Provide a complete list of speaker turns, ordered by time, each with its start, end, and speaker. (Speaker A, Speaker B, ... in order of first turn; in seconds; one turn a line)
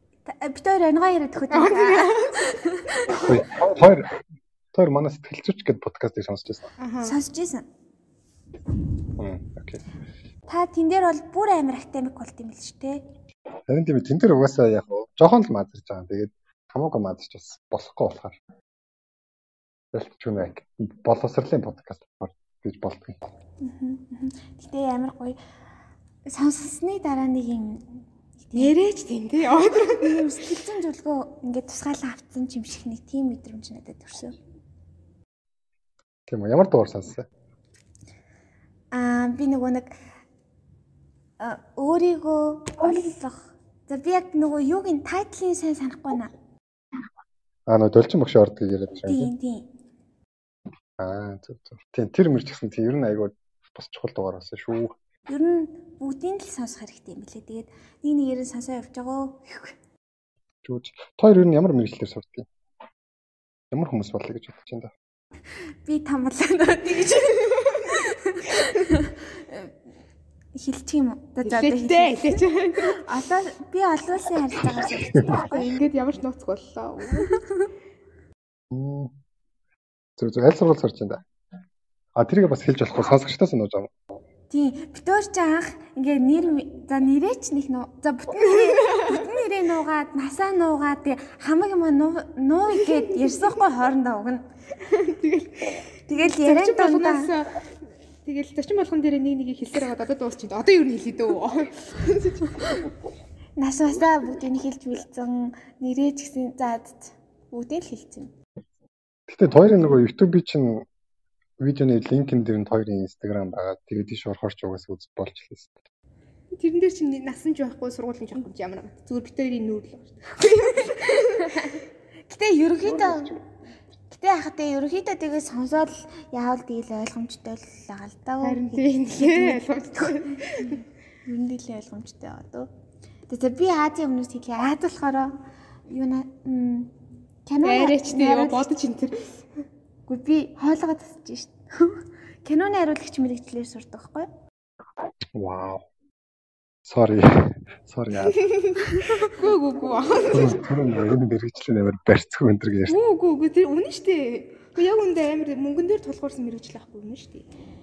Speaker A: 0.3-3.3
Speaker B: 1.5-2.6
Speaker C: 3.1-4.2
Speaker C: 4.7-6.7
Speaker B: 6.8-7.2
Speaker A: 7.0-7.7
Speaker C: 9.2-9.8
Speaker A: 10.5-13.0
Speaker C: 13.7-18.4
Speaker C: 19.9-23.2
Speaker A: 23.6-25.4
Speaker A: 26.3-28.7
Speaker B: 28.5-30.3
Speaker A: 30.0-34.4
Speaker C: 36.3-37.3
Speaker A: 38.9-39.9
Speaker A: 41.4-46.3
Speaker C: 47.7-49.3
Speaker A: 49.1-49.7
Speaker C: 51.0-55.0
Speaker A: 55.3-59.8
Speaker C: 60.6-62.5
Speaker C: 63.7-64.9
Speaker A: 65.8-69.7
Speaker A: 70.5-75.7
Speaker B: 71.4-73.0
Speaker C: 74.8-75.4
Speaker B: 75.5-77.3
Speaker A: 77.2-77.5
Speaker C: 78.7-79.1
Speaker C: 80.2-81.2
Speaker C: 82.2-83.9
Speaker A: 84.5-94.5
Speaker B: 88.4-89.2
Speaker B: 94.8-97.6
Speaker A: 96.1-97.3
Speaker B: 98.2-102.9
Speaker A: 103.6-108.3
Speaker C: 109.3-110.9
Speaker C: 111.6-115.7
Speaker B: 116.6-121.7
Speaker A: 121.4-123.4
Speaker C: 122.9-123.4
Speaker A: 124.1-132.7
Speaker B: 128.4-130.8
Speaker A: 133.3-135.4
Speaker A: 135.9-136.9
Speaker A: 137.5-138.7
Speaker B: 137.6-139.4
Speaker A: 140.1-144.3
Speaker C: 145.3-145.9
Speaker C: 146.8-148.4
Speaker B: 148.3-150.6
Speaker C: 150.3-153.0
Speaker B: 152.9-157.5